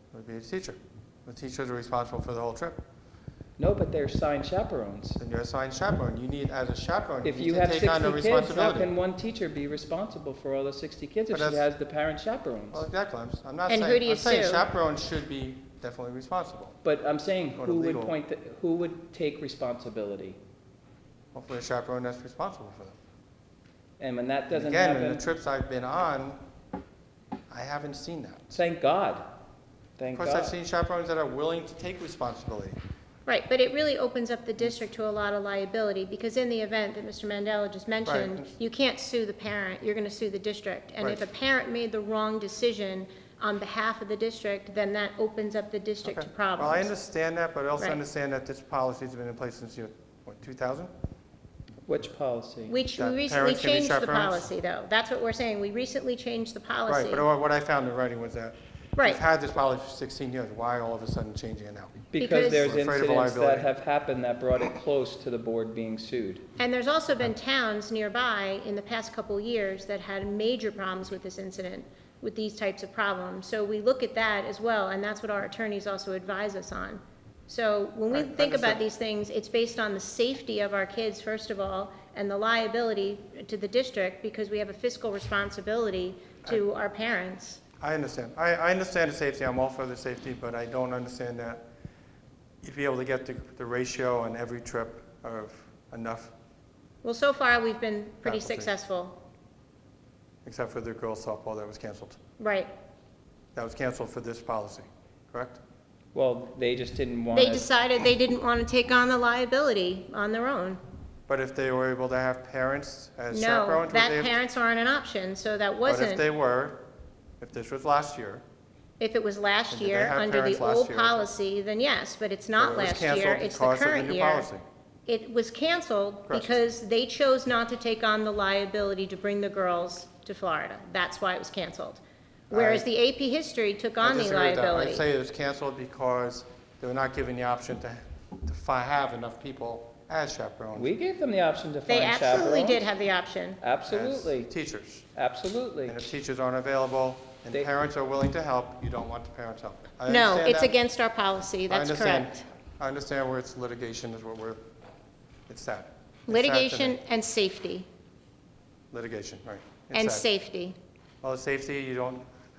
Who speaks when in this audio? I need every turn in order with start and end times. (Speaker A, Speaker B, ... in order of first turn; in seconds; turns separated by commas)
Speaker A: 0.1-2.8, Speaker B: 3.6-5.2, Speaker A: 5.2-8.9, Speaker B: 7.2-12.9, Speaker A: 11.3-11.6, Speaker A: 12.7-16.8, Speaker C: 13.7-14.7, Speaker B: 16.8-20.4, Speaker A: 17.5-18.1, Speaker A: 21.3-23.0, Speaker B: 24.0-25.2, Speaker A: 24.5-26.4, Speaker A: 27.5-28.6, Speaker B: 28.5-29.3, Speaker B: 30.0-30.6, Speaker A: 30.1-32.8, Speaker C: 33.2-46.9, Speaker A: 38.0-38.5, Speaker A: 46.0-50.9, Speaker B: 51.9-52.8, Speaker C: 52.7-57.3, Speaker A: 53.0-54.5, Speaker A: 56.9-63.7, Speaker C: 59.0-59.2, Speaker B: 62.1-66.5, Speaker C: 62.1-62.7, Speaker C: 66.6-87.6, Speaker A: 78.1-78.8, Speaker A: 87.8-91.6, Speaker A: 92.6-96.3, Speaker C: 97.0-99.2, Speaker A: 98.2-98.7, Speaker A: 100.4-102.2, Speaker C: 102.4-102.7, Speaker A: 103.5-105.6, Speaker B: 106.1-107.7, Speaker C: 107.3-110.8, Speaker A: 111.3-114.3, Speaker C: 113.3-116.2, Speaker A: 115.8-116.8, Speaker A: 117.4-118.4, Speaker C: 119.0-124.5, Speaker A: 119.7-121.3, Speaker A: 122.6-124.6, Speaker C: 125.1-135.0, Speaker A: 126.3-126.6, Speaker A: 132.5-132.9, Speaker A: 134.0-140.9, Speaker B: 140.7-142.9, Speaker C: 141.9-143.6, Speaker B: 143.6-144.5, Speaker A: 143.9-145.1, Speaker B: 145.2-146.1, Speaker A: 145.9-150.7, Speaker C: 150.1-152.4, Speaker A: 151.7-154.6, Speaker A: 155.5-157.0, Speaker C: 156.3-157.9, Speaker A: 158.9-160.3, Speaker C: 159.9-160.8, Speaker A: 161.2-162.2